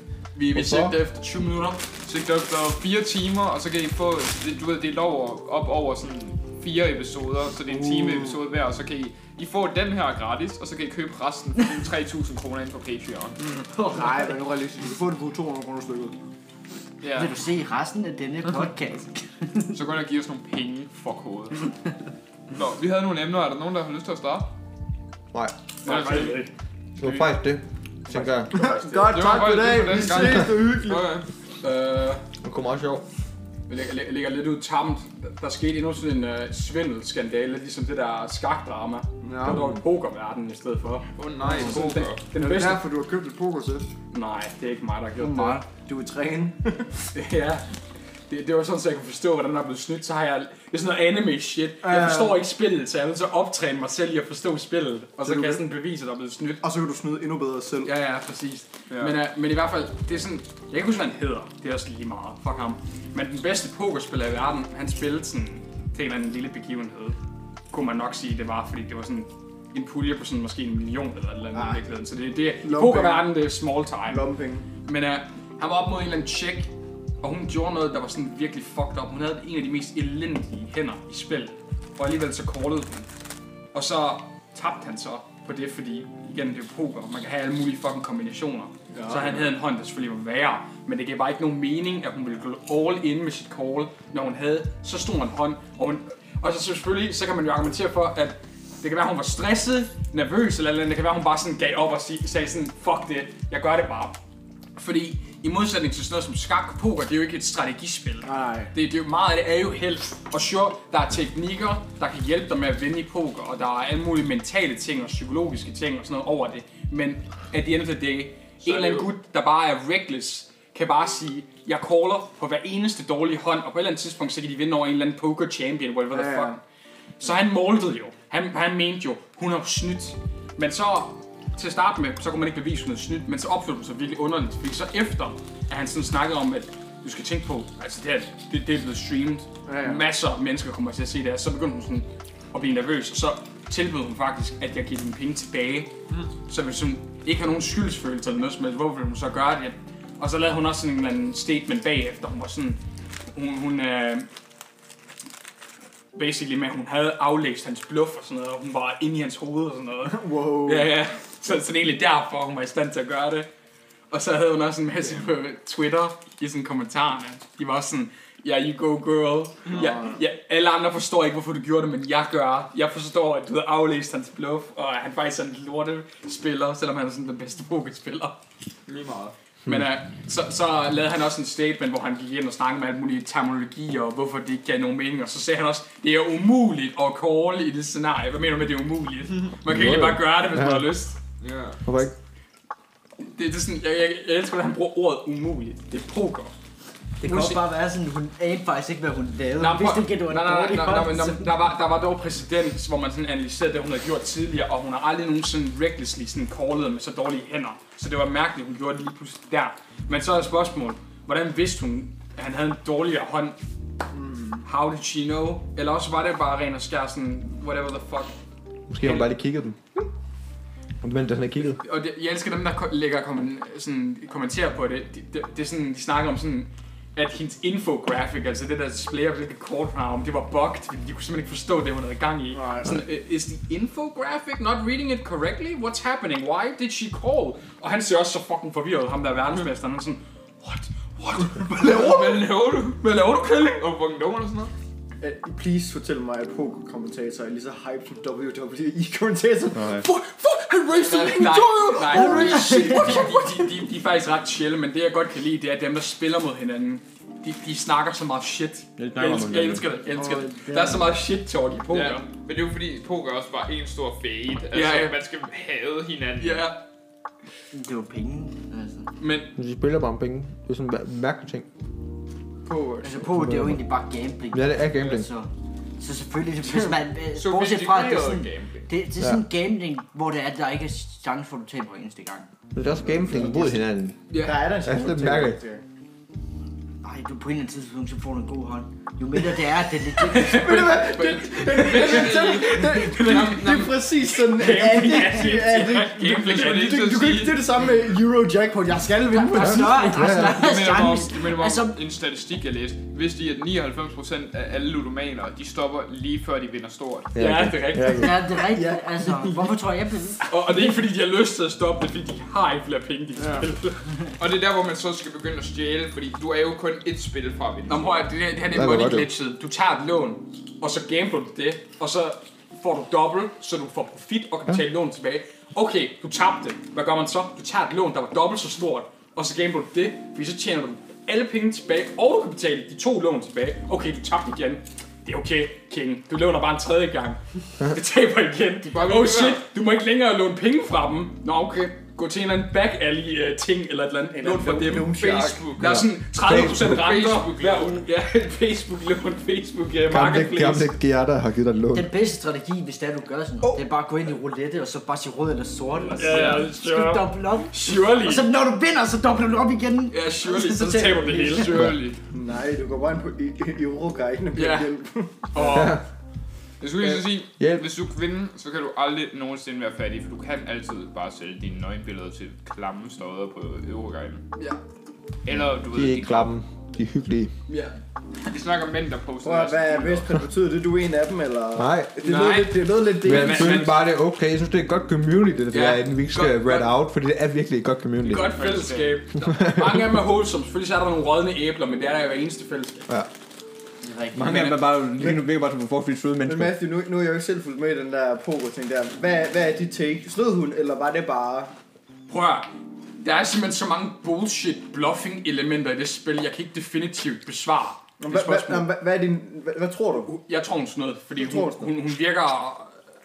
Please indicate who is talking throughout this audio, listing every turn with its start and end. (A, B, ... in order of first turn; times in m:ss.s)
0:00.4-0:01.8 A
0:00.5-0:01.0 B
0:02.0-0:13.4 C
0:07.7-0:08.4 D
0:13.6-0:16.2 D
0:13.9-0:14.3 E
0:17.0-0:17.4 C
0:17.2-0:19.8 E
0:19.7-0:21.8 C
0:22.5-0:24.5 C
0:25.8-0:26.5 A
0:25.9-0:26.4 C
0:27.0-0:28.5 B
0:27.0-0:27.3 C
0:28.2-0:31.1 D
0:28.5-0:29.2 A
0:28.8-0:31.3 C
0:31.6-0:32.2 A
0:32.4-0:33.0 B
0:33.7-0:42.8 A
0:39.2-0:39.7 D
0:41.2-0:42.3 C
0:41.4-0:43.9 D
0:44.1-0:45.6 A
0:45.2-0:47.0 D
0:47.1-0:47.6 A
0:48.3-0:56.6 A
0:51.8-0:52.4 D
0:55.2-0:55.6 D
0:56.6-0:57.9 D
0:57.8-1:07.2 A
0:58.9-0:59.2 C
1:07.7-1:14.2 A
1:11.5-1:11.8 D
1:12.6-1:13.3 D
1:14.1-1:14.7 D
1:14.8-1:16.7 A
1:17.2-1:23.1 A
1:23.7-1:44.2 A
1:29.0-1:29.4 D
1:44.8-2:06.6 A
1:48.2-1:48.7 D
1:58.6-1:59.1 C
2:06.1-2:06.6 D
2:07.2-2:25.9 A
2:19.7-2:20.1 D
2:26.5-2:32.8 A
2:33.3-2:34.3 A
2:36.1-2:43.5 A
2:40.1-2:40.9 D
2:44.1-2:58.4 A
2:45.0-2:45.3 C
2:49.7-2:50.2 D
2:58.9-2:59.3 C
2:59.7-3:11.2 A
3:09.7-3:10.9 B
3:11.4-3:11.8 C
3:11.8-3:12.1 B
3:13.3-3:16.5 A
3:17.2-3:21.6 E
3:17.2-3:17.6 A
3:19.6-3:33.6 A
3:34.1-3:34.7 D
3:34.6-3:38.4 A
3:38.9-3:39.8 B
3:39.0-3:39.3 A
3:41.0-3:41.8 B
3:41.8-4:03.8 A
3:52.5-3:53.0 D
4:01.7-4:03.0 C
4:03.6-4:04.7 C
4:05.2-4:10.0 D
4:09.7-4:10.1 B
4:10.0-4:22.2 A
4:11.1-4:12.0 C
4:12.0-4:13.3 D
4:12.0-4:13.4 E
4:19.0-4:19.9 B
4:20.1-4:21.1 E
4:21.9-4:26.7 C
4:24.7-4:25.2 A
4:26.4-4:26.8 A
4:27.7-4:29.1 E
4:29.2-4:29.5 A
4:29.6-4:31.7 B
4:32.7-4:33.1 D
4:33.0-4:42.5 E
4:33.2-4:33.8 B
4:34.5-4:35.3 B
4:37.3-4:38.9 C
4:39.2-4:39.4 B
4:42.8-4:44.2 B
4:43.0-4:43.8 D
4:44.3-4:44.6 A
4:44.3-4:45.8 D
4:44.8-4:45.6 B
4:47.0-4:50.7 E
4:50.2-4:56.7 A
4:50.4-5:00.5 D
4:52.0-4:53.5 C
4:56.2-4:57.7 C
4:59.3-5:02.0 E
4:59.5-5:00.6 B
5:00.2-5:07.4 C
5:07.3-5:08.4 B
5:07.4-5:08.2 A
5:08.0-5:10.5 E
5:08.2-5:09.8 D
5:10.5-5:14.1 A
5:14.4-5:18.2 C
5:17.9-5:50.9 A
5:18.7-5:19.3 B
5:38.8-5:39.7 C
5:44.3-5:45.6 D
5:45.0-5:45.9 C
5:45.8-5:47.1 B
5:46.5-5:48.0 C
5:50.1-5:52.1 B
5:51.9-6:01.6 E
5:56.1-5:58.5 A
6:00.1-6:02.0 A
6:00.8-6:05.9 D
6:01.4-6:02.2 C
6:01.8-6:02.0 B
6:04.6-6:04.9 A
6:05.5-6:06.0 A
6:05.6-6:06.0 B
6:06.8-6:14.4 C
6:07.6-6:07.9 B
6:14.6-6:14.8 A
6:15.4-6:16.5 C
6:15.9-6:17.5 B
6:17.7-6:18.0 A
6:18.5-6:20.3 C
6:19.4-6:23.9 D
6:21.8-6:22.2 B
6:22.2-6:22.8 C
6:23.2-6:28.5 B
6:23.3-6:24.0 A
6:23.5-6:23.8 C
6:25.7-6:27.0 A
6:28.2-6:33.1 A
6:28.3-6:29.2 C
6:29.4-6:30.2 B
6:34.0-6:34.7 E
6:34.3-6:36.8 B
6:35.2-6:35.4 D
6:36.4-6:41.7 D
6:42.3-6:42.7 A
6:43.2-6:48.9 A
6:48.2-6:50.3 D
6:50.1-6:53.0 A
6:51.4-6:51.9 D